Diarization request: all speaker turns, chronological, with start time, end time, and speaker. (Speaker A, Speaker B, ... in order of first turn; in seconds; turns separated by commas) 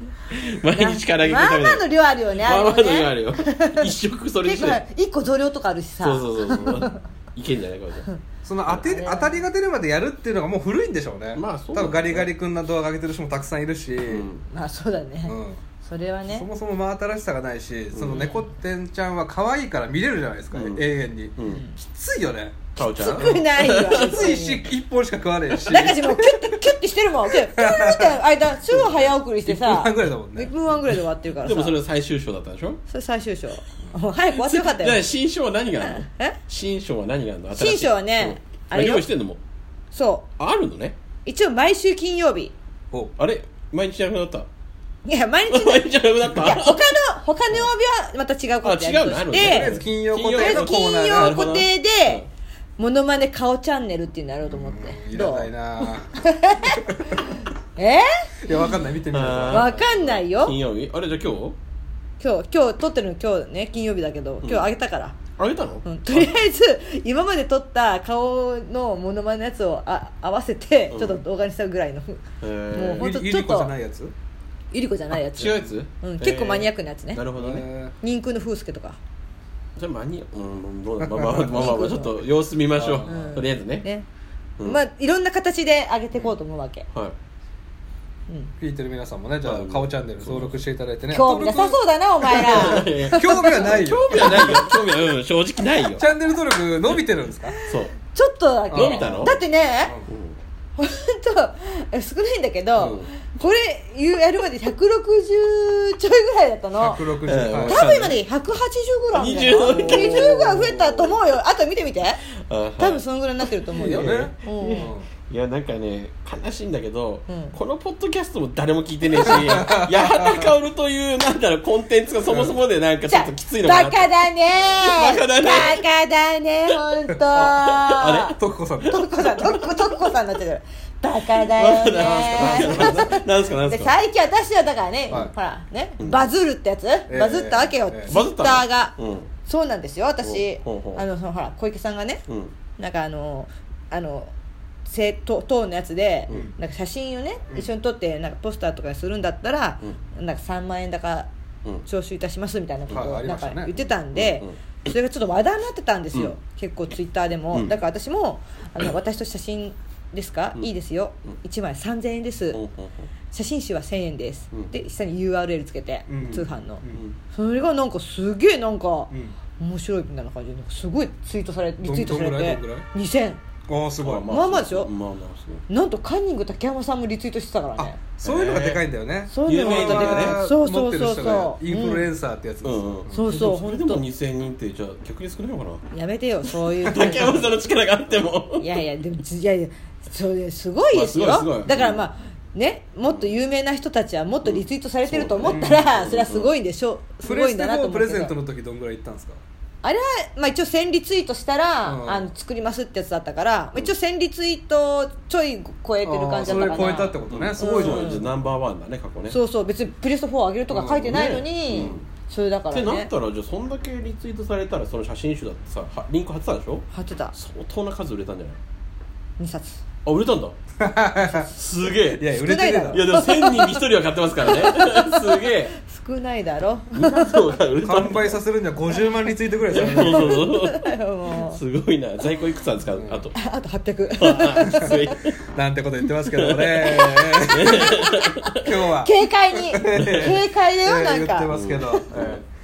Speaker A: 0.3-4.8, Speaker B: 0.7-3.9, Speaker B: 4.4-7.0, Speaker A: 6.0-8.1, Speaker C: 8.4-14.3, Speaker B: 8.7-9.4, Speaker A: 11.3-12.3, Speaker A: 14.1-14.4, Speaker B: 14.5-16.5, Speaker C: 15.2-15.6, Speaker C: 16.3-26.5, Speaker A: 17.9-18.3, Speaker A: 20.5-20.9, Speaker B: 21.4-21.8, Speaker A: 22.8-24.2, Speaker B: 23.0-24.6, Speaker B: 25.6-31.8, Speaker C: 27.3-30.5, Speaker A: 31.4-32.8, Speaker B: 32.9-35.1, Speaker A: 34.3-39.4, Speaker B: 35.8-36.4, Speaker B: 37.5-39.1, Speaker B: 39.9-40.3, Speaker A: 40.4-40.9, Speaker B: 41.2-42.5, Speaker A: 43.2-44.5, Speaker B: 45.0-49.8, Speaker A: 45.5-46.8, Speaker A: 48.6-52.3, Speaker C: 49.3-51.4, Speaker B: 50.3-52.2, Speaker B: 52.8-55.5, Speaker C: 54.5-56.1, Speaker B: 56.1-58.1, Speaker C: 56.7-57.2, Speaker C: 58.4-59.8, Speaker A: 59.1-61.6, Speaker B: 59.5-60.5, Speaker B: 62.2-65.2, Speaker A: 64.4-64.7, Speaker A: 65.4-66.3, Speaker B: 65.8-73.7, Speaker A: 70.9-71.2, Speaker A: 72.4-73.1, Speaker C: 72.9-74.1, Speaker B: 74.7-77.2, Speaker A: 75.3-77.7, Speaker C: 77.3-77.9, Speaker B: 78.0-79.0, Speaker A: 79.8-83.9, Speaker C: 81.0-81.7, Speaker B: 81.5-82.1, Speaker C: 82.8-83.4, Speaker B: 83.0-84.0, Speaker B: 84.6-86.9, Speaker C: 88.6-91.8, Speaker A: 89.4-90.6, Speaker B: 91.1-94.7, Speaker A: 92.3-96.0, Speaker C: 92.3-94.8, Speaker C: 95.9-97.5, Speaker A: 97.6-97.9, Speaker B: 98.0-99.9, Speaker C: 98.7-100.1, Speaker A: 98.7-99.4, Speaker A: 100.1-100.4, Speaker B: 100.8-107.1, Speaker A: 102.8-103.1, Speaker C: 106.8-107.9, Speaker A: 107.2-108.2, Speaker B: 107.7-112.2, Speaker A: 109.1-111.2, Speaker A: 112.4-125.8, Speaker B: 112.8-114.9, Speaker C: 113.7-115.1, Speaker B: 117.3-117.5, Speaker C: 119.1-120.5, Speaker C: 122.3-122.6, Speaker B: 123.1-128.3, Speaker C: 127.3-129.2, Speaker B: 128.9-142.2, Speaker A: 131.5-133.9, Speaker C: 132.0-133.0, Speaker A: 136.0-136.2, Speaker C: 137.1-138.1, Speaker A: 138.1-139.3, Speaker A: 140.2-141.0, Speaker A: 142.3-142.5, Speaker B: 142.8-144.3, Speaker B: 144.8-151.3, Speaker B: 151.8-162.6, Speaker C: 152.9-153.7, Speaker A: 154.1-154.5, Speaker A: 157.5-157.8, Speaker A: 162.5-163.1, Speaker B: 163.3-173.4, Speaker C: 166.1-167.0, Speaker A: 166.9-167.2, Speaker C: 171.8-172.8, Speaker C: 173.7-174.4, Speaker A: 174.0-175.6, Speaker B: 174.3-174.9, Speaker B: 175.7-178.0, Speaker C: 177.8-183.2, Speaker A: 178.2-178.8, Speaker B: 179.3-182.1, Speaker A: 179.4-180.4, Speaker A: 182.6-185.8, Speaker B: 183.1-184.1, Speaker B: 185.9-187.4, Speaker A: 186.8-188.8, Speaker C: 186.9-187.3, Speaker B: 188.6-198.3, Speaker A: 190.9-192.0, Speaker A: 194.4-196.5, Speaker C: 195.4-195.9, Speaker C: 197.2-199.4, Speaker B: 199.8-208.3, Speaker C: 201.8-202.3, Speaker C: 206.0-208.2, Speaker A: 206.4-209.4, Speaker B: 209.3-213.1, Speaker C: 210.7-212.0, Speaker A: 211.1-212.0, Speaker A: 212.7-218.6, Speaker B: 216.9-217.3, Speaker B: 219.4-219.8, Speaker A: 220.0-220.6, Speaker C: 220.8-221.5, Speaker A: 221.5-222.2, Speaker C: 222.2-223.1, Speaker B: 222.3-223.8, Speaker A: 222.9-225.8, Speaker B: 224.4-227.5, Speaker A: 226.9-228.3, Speaker C: 227.8-230.4, Speaker A: 229.7-233.3, Speaker B: 229.8-231.6, Speaker C: 232.9-233.2, Speaker B: 233.3-235.2, Speaker A: 234.2-235.3, Speaker C: 234.6-234.9, Speaker C: 235.5-242.4, Speaker A: 236.2-238.7, Speaker B: 237.0-242.0, Speaker A: 239.9-240.4, Speaker A: 241.5-242.4